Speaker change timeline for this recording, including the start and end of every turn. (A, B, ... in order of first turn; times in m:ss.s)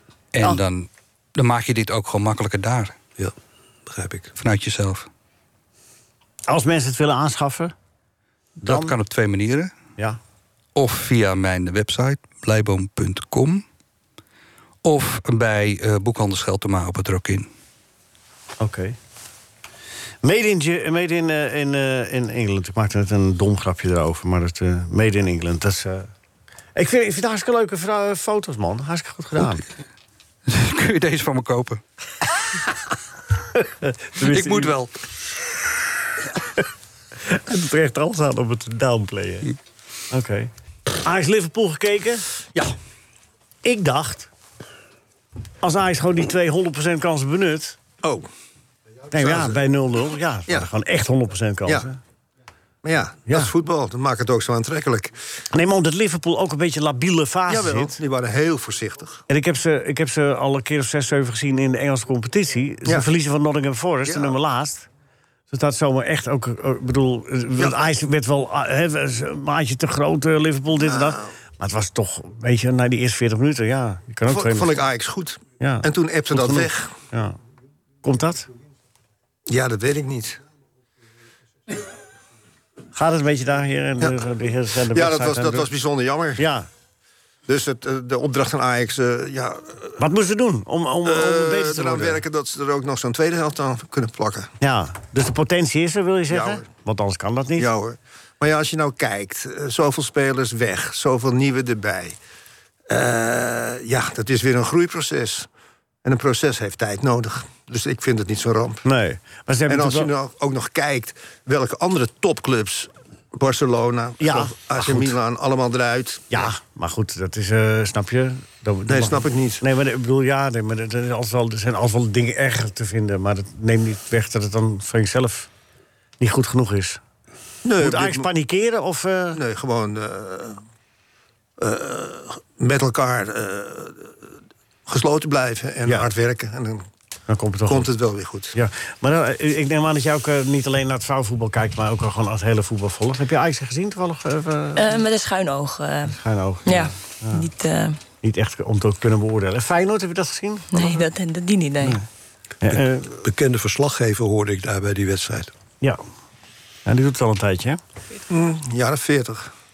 0:00.3-0:03.0 A
0:03.9-0:04.3 B
0:04.4-0:05.1 A
0:06.5-0:07.7 C
0:08.6-0:09.7 A
0:08.6-0:08.9 C
0:10.7-0:13.6 A
0:14.8-0:17.5 A
0:18.6-0:19.0 C
0:20.2-0:26.1 C
0:26.7-0:29.6 C
0:30.5-0:31.8 A
0:33.8-0:34.8 C
0:34.2-0:34.9 A
0:37.2-0:39.5 C
0:40.1-0:40.5 C
0:41.0-0:42.2 C
0:43.6-0:44.3 C
0:45.6-0:47.8 C
0:48.0-0:48.3 D
0:49.1-0:52.0 C
0:49.1-0:49.6 D
0:52.8-0:55.2 D
0:53.3-0:53.5 C
0:55.5-0:58.0 C
0:57.5-0:59.2 D
0:59.3-1:04.9 C
1:04.0-1:04.3 D
1:05.5-1:14.8 C
1:07.6-1:07.8 D
1:10.7-1:11.2 D
1:14.2-1:17.0 D
1:15.6-1:17.4 C
1:18.0-1:18.5 C
1:19.5-1:20.4 D
1:22.9-1:25.7 C
1:24.8-1:26.4 D
1:26.4-1:26.7 C
1:27.5-1:30.0 D
1:30.0-1:32.2 C
1:31.0-1:34.5 D
1:34.6-1:37.7 C
1:36.3-1:36.6 D
1:37.6-1:42.2 D
1:42.9-1:45.5 D
1:46.0-1:48.8 D
1:48.8-1:50.1 C
1:49.7-1:56.5 D
1:54.2-1:55.2 C
1:56.3-2:05.5 C
1:58.8-1:59.6 D
2:06.2-2:07.0 C
2:07.6-2:08.3 D
2:07.8-2:09.4 C
2:09.3-2:10.6 D
2:11.6-2:14.2 D
2:14.9-2:16.8 D
2:17.3-2:17.9 C
2:17.6-2:18.6 D
2:18.5-2:25.0 C
2:24.8-2:28.0 E
2:26.1-2:27.5 C
2:28.2-2:31.0 C
2:30.7-2:32.0 E
2:32.6-2:33.2 C
2:33.2-2:35.5 B
2:36.8-2:37.8 C
2:38.3-2:39.5 D